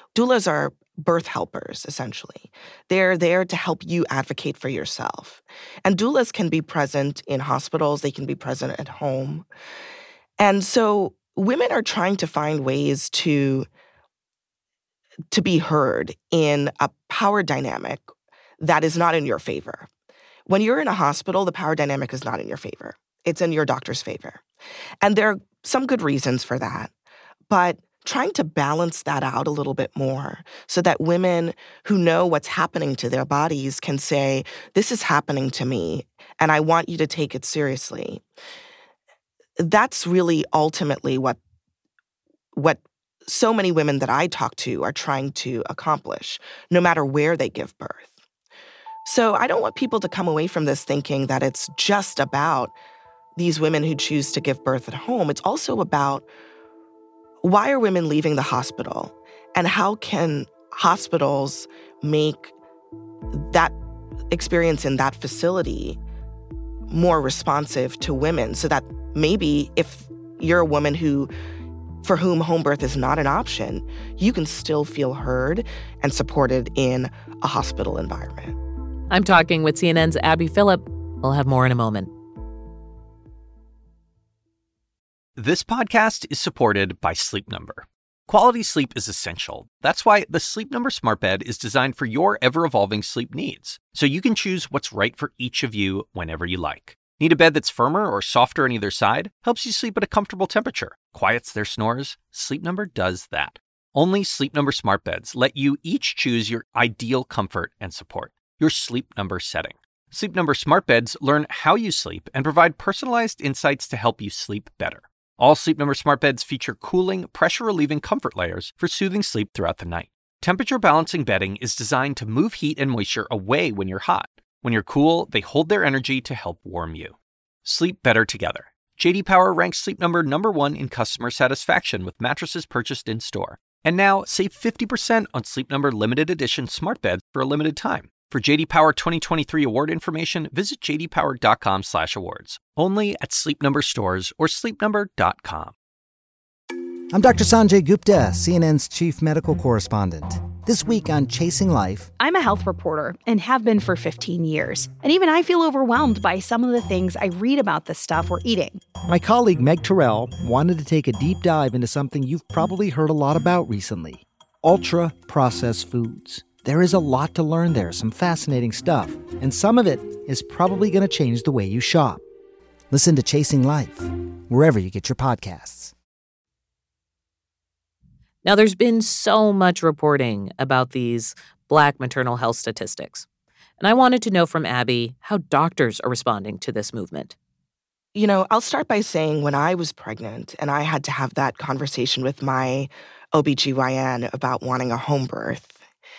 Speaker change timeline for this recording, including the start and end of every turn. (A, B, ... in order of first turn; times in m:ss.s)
0:00.1-0:09.5 A
0:10.4-0:13.7 A
0:15.3-0:18.1 A
0:18.6-0:19.9 A
0:20.5-0:24.4 A
0:25.0-0:26.9 A
0:27.5-0:38.2 A
0:39.6-0:41.4 A
0:42.5-0:48.1 A
0:49.0-0:52.7 A
0:53.4-0:56.2 A
0:57.4-1:02.5 A
1:03.3-1:03.7 A
1:04.3-1:06.0 A
1:06.9-1:11.3 A
1:12.0-1:18.6 A
1:19.1-1:22.1 B
1:25.4-2:25.7 C
2:27.1-2:32.1 D
2:32.2-2:38.8 E
2:39.1-2:52.2 D
2:52.9-2:55.9 D
2:58.4-3:03.2 B
3:03.8-3:07.4 B
3:08.1-3:15.8 A